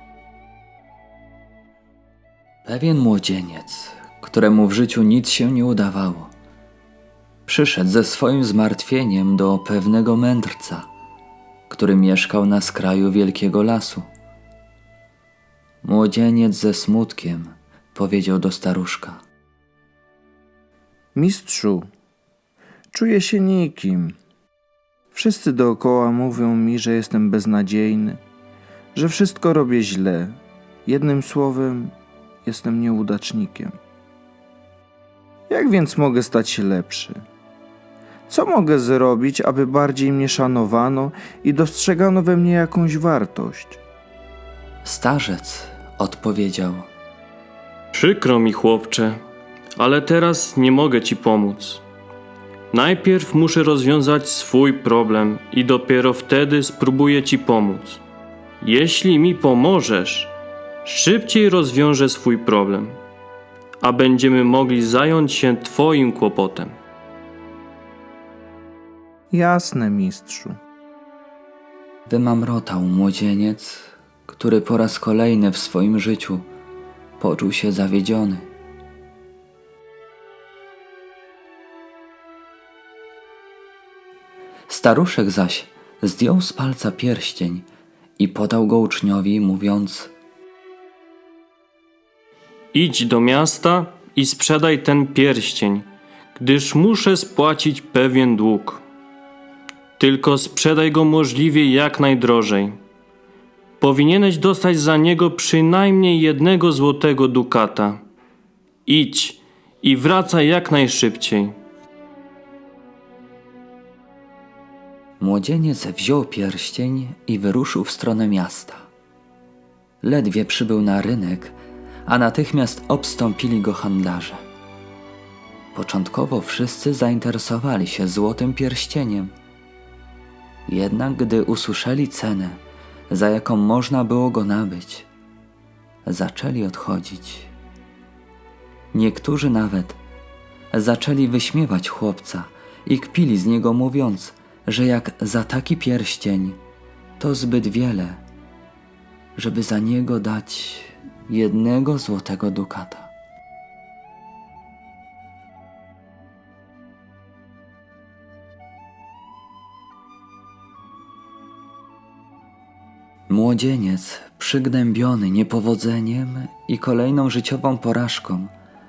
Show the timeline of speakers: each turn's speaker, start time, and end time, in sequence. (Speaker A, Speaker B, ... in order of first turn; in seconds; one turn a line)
Speaker A: 2.6-6.3
Speaker A: 7.5-10.9
Speaker A: 11.7-14.1
Speaker A: 15.8-19.2
Speaker B: 21.1-21.9
Speaker B: 22.9-24.1
Speaker B: 25.1-28.2
Speaker B: 28.9-31.9
Speaker B: 32.5-33.7
Speaker B: 35.5-37.2
Speaker B: 38.3-43.8
Speaker A: 44.8-46.9
Speaker C: 47.9-49.2
Speaker C: 49.8-51.8
Speaker C: 52.7-58.0
Speaker C: 58.6-60.3
Speaker C: 60.8-63.0
Speaker C: 63.8-66.7
Speaker B: 69.3-70.5
Speaker A: 72.1-76.5
Speaker A: 77.2-78.5
Speaker A: 84.7-87.7
Speaker A: 88.2-90.1
Speaker C: 92.7-95.8
Speaker C: 96.4-98.8
Speaker C: 100.0-102.8
Speaker C: 103.8-108.0
Speaker C: 108.9-111.5
Speaker A: 115.2-118.9
Speaker A: 120.0-124.4
Speaker A: 125.7-129.3
Speaker A: 130.7-135.1
Speaker A: 136.1-137.5
Speaker A: 138.9-140.0
Speaker A: 140.7-146.6
Speaker A: 147.2-148.2
Speaker A: 149.4-153.1
Speaker A: 163.3-168.5